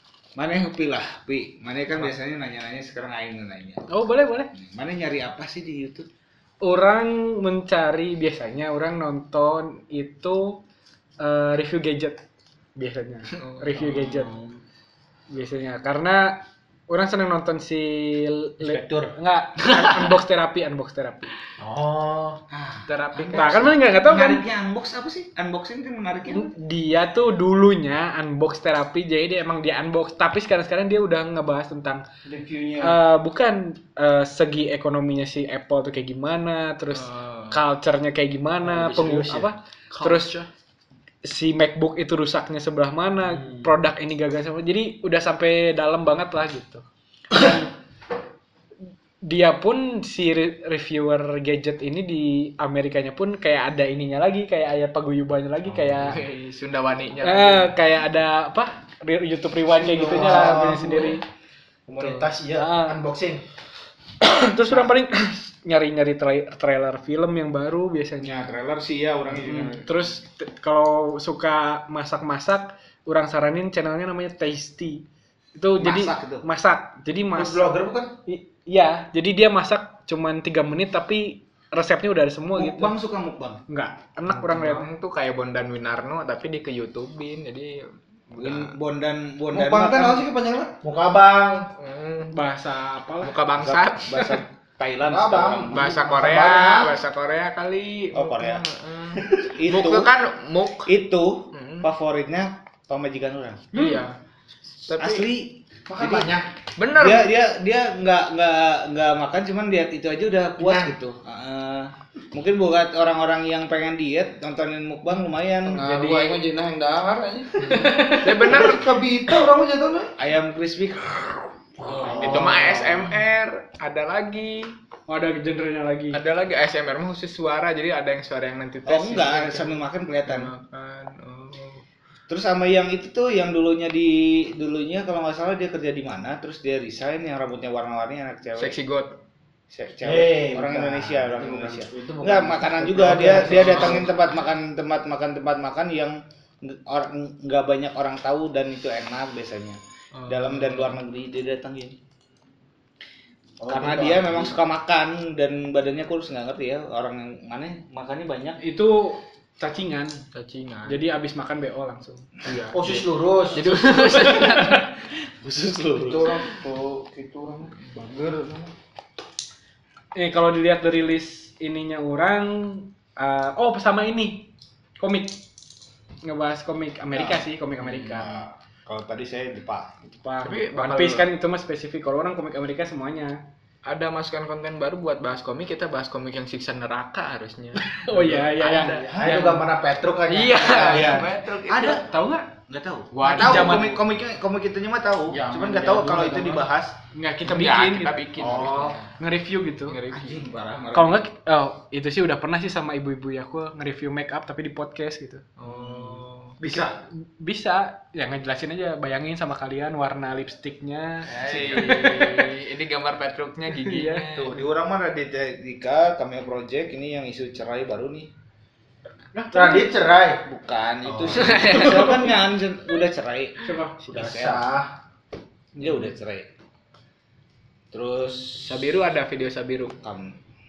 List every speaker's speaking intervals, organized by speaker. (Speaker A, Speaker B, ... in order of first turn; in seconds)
Speaker A: 0.4-3.9, 4.5-6.1, 22.5-26.5, 32.3-33.0, 68.2-69.9, 75.8-76.5, 82.5-83.6, 88.4-90.3, 93.6-96.0, 98.2-98.6, 99.5-100.1, 100.9-103.6, 104.9-106.3, 106.9-115.9, 120.2-123.1, 128.9-130.5, 132.3-138.8, 139.7-152.0, 153.7-158.6, 166.0-166.3, 177.1-177.4, 177.9-179.9, 190.8-192.1, 192.7-196.7, 200.1-201.2, 205.7-206.2, 211.3-212.1, 214.3-218.3, 220.4-224.7, 225.8-226.5, 227.9-228.9, 230.0-230.3
Speaker B: 3.9-4.5, 6.6-10.6, 11.2-12.2, 12.8-14.3, 15.3-21.3, 22.9-24.4, 26.3-32.0, 32.8-40.3, 41.2-47.7, 49.2-56.2, 57.2-61.2, 62.0-63.0, 64.2-68.5, 69.4-75.0, 75.6-83.0, 83.7-84.9, 92.3-93.3, 103.8-104.0, 115.8-116.4, 117.7-118.3, 125.1-126.2, 158.6-160.2, 160.9-162.3, 163.8-164.8, 170.2-175.4, 176.2-178.4, 180.1-183.4, 187.8-189.7, 192.0-192.5, 193.2-194.0, 197.1-198.2, 199.2-200.0, 200.9-205.4, 206.6-212.5, 213.8-214.3, 219.3-219.9, 223.6-224.0
Speaker C: 13.4-13.6, 36.9-37.6, 39.9-40.5, 56.0-57.8, 84.3-88.8, 91.8-92.4, 93.2-94.4, 95.7-100.9, 101.5-101.9, 103.7-104.2, 104.8-105.3, 106.8-107.3, 117.6-118.9, 122.0-124.7, 126.1-131.8, 138.6-139.2, 143.5-144.1, 150.2-151.0, 160.3-161.0, 162.4-163.0, 163.5-164.9, 180.4-181.3, 183.8-189.4, 190.3-192.1, 193.1-194.0, 195.3-196.2, 197.4-199.1, 199.9-200.4, 205.6-206.6, 211.4-214.6, 221.3-222.3, 228.7-230.0
Speaker D: 13.8-14.6, 18.6-19.1, 21.6-22.4, 38.6-39.5, 43.3-43.7, 59.7-61.2, 61.9-63.4, 77.3-78.1, 90.8-91.7, 95.1-96.9, 99.2-99.5, 105.9-106.5, 110.6-110.9, 122.0-122.7, 140.0-144.1, 153.6-154.6, 162.7-163.7, 165.4-166.2, 189.1-191.3, 195.6-197.0, 198.4-199.0, 206.6-206.9, 219.5-220.5, 221.0-221.8, 224.1-225.0
Speaker E: 89.5-90.8, 95.2-95.5, 115.7-120.1, 166.0-168.7